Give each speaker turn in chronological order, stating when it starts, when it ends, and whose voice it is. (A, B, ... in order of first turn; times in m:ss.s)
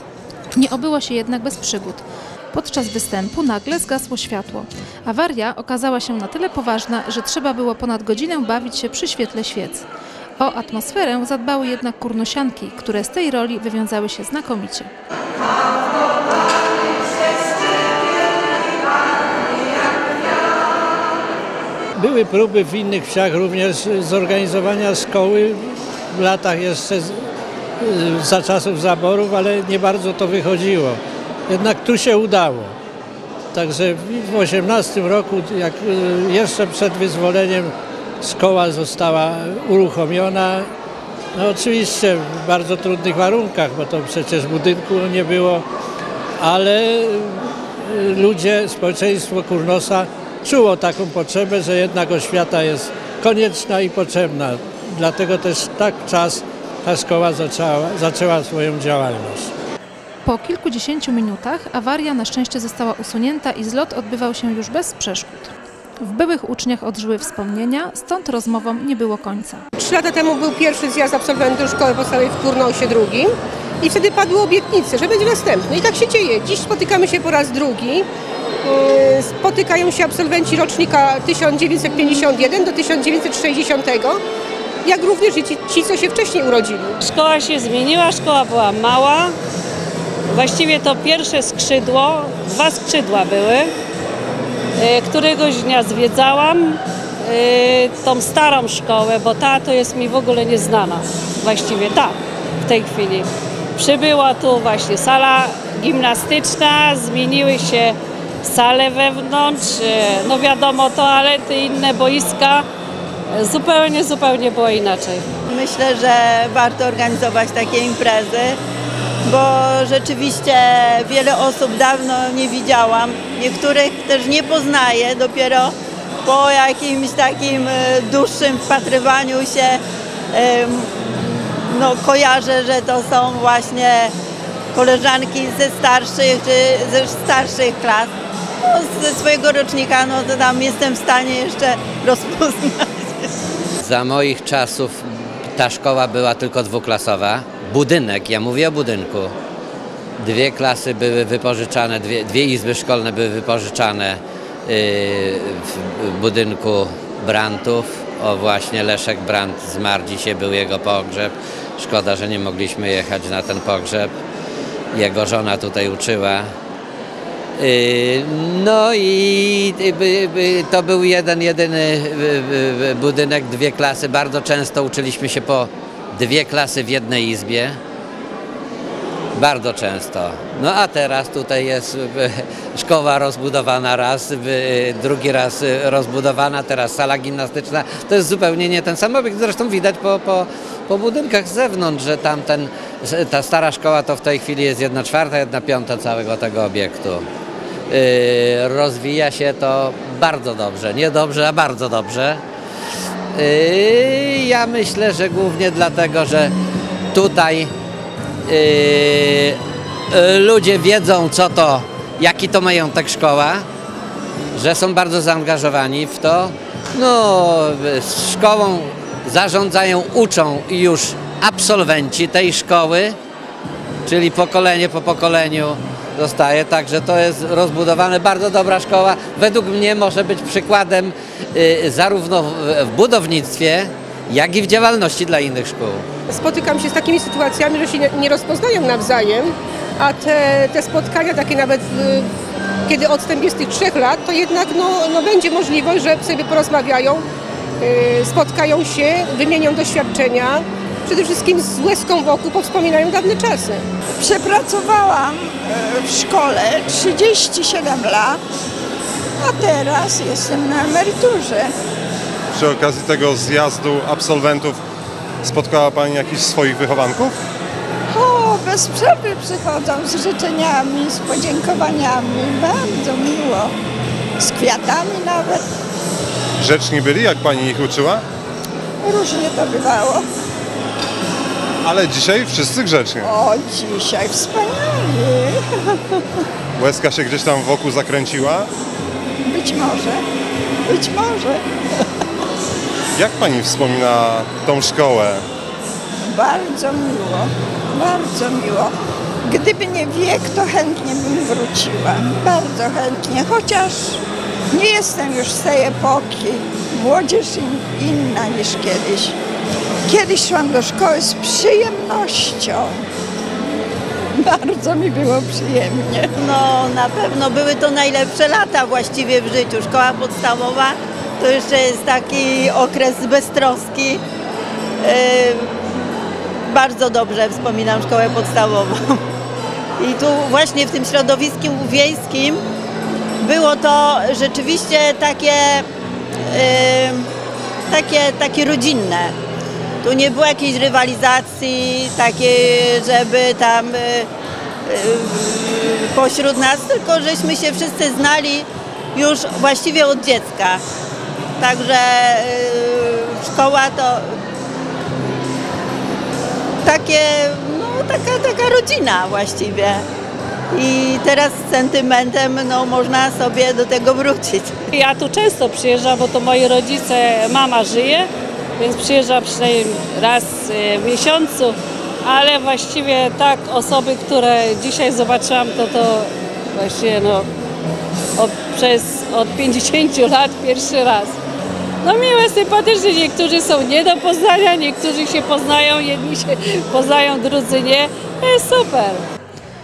0:00.6-0:09.8 A
0:10.4-0:14.9 A
0:22.0-0:27.2 B
0:27.8-0:32.8 B
0:33.5-0:40.7 B
0:41.3-0:45.6 B
0:46.4-0:59.5 B
1:00.2-1:09.6 A
1:09.8-1:18.1 C
1:18.6-1:24.2 C
1:24.8-1:27.0 C
1:27.0-1:29.4 D
1:30.3-1:33.7 D
1:34.8-1:52.7 D
1:53.4-1:55.2 D
1:55.5-1:58.6 E
1:59.2-2:05.7 E
2:06.2-2:09.8 E
2:10.3-2:14.1 E
2:14.7-2:18.1 E
2:18.6-2:23.3 E
2:23.8-2:29.3 F
2:30.2-2:44.1 F
2:44.9-2:46.5 F
2:47.6-2:57.8 F
2:59.4-3:17.2 F
3:17.9-3:22.4 F
3:23.3-3:26.5 F
3:27.1-3:27.7 F
3:28.5-3:29.6 F
3:30.1-3:33.6 F
3:34.5-3:43.2 F
3:44.1-3:56.1 F
3:56.3-4:02.3 C
4:02.9-4:07.2 C
4:07.8-4:13.8 C
4:14.2-4:18.4 G
4:19.4-4:21.7 G
4:22.6-4:24.8 H
4:25.4-4:27.4 H
4:28.1-4:33.8 G
4:34.4-4:35.6 G
4:36.6-4:38.2 H
4:39.0-4:40.2 G
4:41.9-4:43.2 H
4:43.2-4:46.0 G
4:46.8-4:48.7 H
4:49.4-4:50.2 G
4:50.9-4:51.6 G
4:53.2-4:55.4 H
4:56.2-5:09.4 G
5:10.1-5:13.0 G
5:14.4-5:16.3 G
5:16.4-5:24.2 E
5:25.0-5:29.2 E
5:30.0-5:32.6 E
5:33.4-5:35.9 E
5:36.5-5:37.3 E
5:37.9-5:39.4 E
5:40.0-5:44.3 E
5:44.9-5:50.8 E
5:51.6-5:54.3 E
5:56.8-6:00.0 E
6:00.7-6:04.8 E
6:04.9-6:17.5 D
6:18.4-6:21.4 D
6:22.0-6:29.2 D